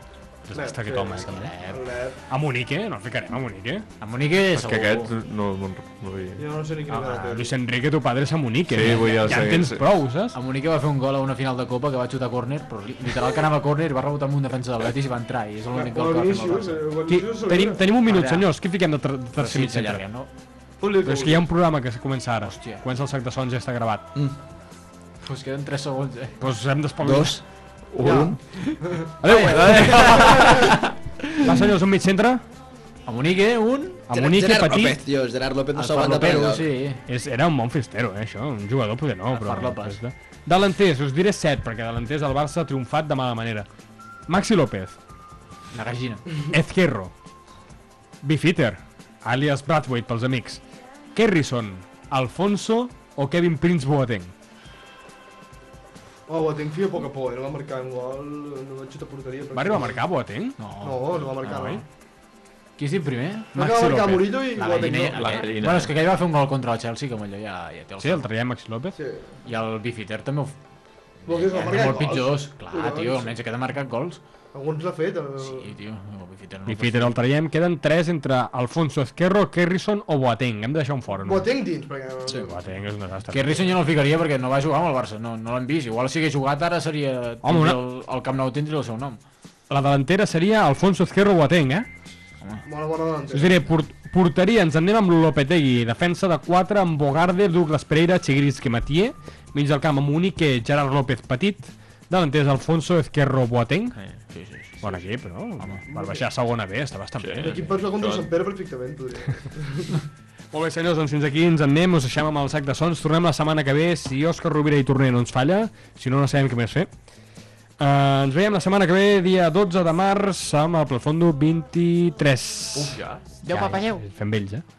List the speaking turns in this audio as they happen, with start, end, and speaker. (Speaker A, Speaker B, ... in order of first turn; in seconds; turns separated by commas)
Speaker A: 0.5-1.5, Speaker B: 0.6-2.2, Speaker C: 1.2-1.8, Speaker A: 2.3-3.9, Speaker C: 4.0-5.1, Speaker D: 4.5-6.4, Speaker B: 6.4-7.5, Speaker A: 6.9-10.3, Speaker D: 8.7-9.8, Speaker C: 10.3-16.9, Speaker B: 15.7-17.8, Speaker A: 17.1-20.1, Speaker C: 18.1-18.5, Speaker C: 19.4-20.3, Speaker B: 20.8-21.5, Speaker A: 21.0-24.1, Speaker C: 22.4-22.8, Speaker C: 25.2-26.4, Speaker A: 26.4-27.4, Speaker E: 27.0-27.4, Speaker D: 28.0-28.4, Speaker E: 28.0-28.4, Speaker B: 28.0-28.3, Speaker B: 28.8-29.1, Speaker C: 29.2-30.7, Speaker A: 29.2-30.5, Speaker D: 29.5-30.8, Speaker A: 31.4-32.4, Speaker C: 33.1-34.0, Speaker A: 34.1-35.0, Speaker E: 34.1-36.7, Speaker C: 35.8-37.0, Speaker A: 37.1-43.7, Speaker C: 39.3-40.0, Speaker A: 44.3-45.0, Speaker C: 45.7-46.2, Speaker A: 46.5-47.1, Speaker A: 48.2-50.6, Speaker A: 51.1-54.3, Speaker B: 56.3-60.0, Speaker A: 59.5-60.6, Speaker C: 60.6-61.3, Speaker B: 60.8-61.8, Speaker A: 61.4-61.8, Speaker C: 62.8-63.5, Speaker B: 63.5-65.4, Speaker A: 63.6-64.4, Speaker C: 64.6-68.3, Speaker D: 65.2-65.9, Speaker A: 68.0-69.0, Speaker B: 69.0-69.3, Speaker C: 69.5-70.5, Speaker B: 71.3-73.3, Speaker C: 71.3-74.2, Speaker B: 74.5-75.7, Speaker C: 75.4-77.2, Speaker A: 76.7-81.5, Speaker B: 81.3-82.6, Speaker A: 82.3-83.7, Speaker C: 83.3-89.2, Speaker A: 87.4-87.8, Speaker A: 89.7-91.9, Speaker B: 92.7-93.7, Speaker A: 93.3-104.0, Speaker C: 104.0-105.1, Speaker A: 104.8-107.6, Speaker B: 105.9-106.2, Speaker D: 107.2-108.3, Speaker B: 107.4-110.0, Speaker A: 110.5-116.9, Speaker A: 117.8-123.0, Speaker D: 122.7-123.2, Speaker C: 123.4-124.0, Speaker A: 123.5-124.6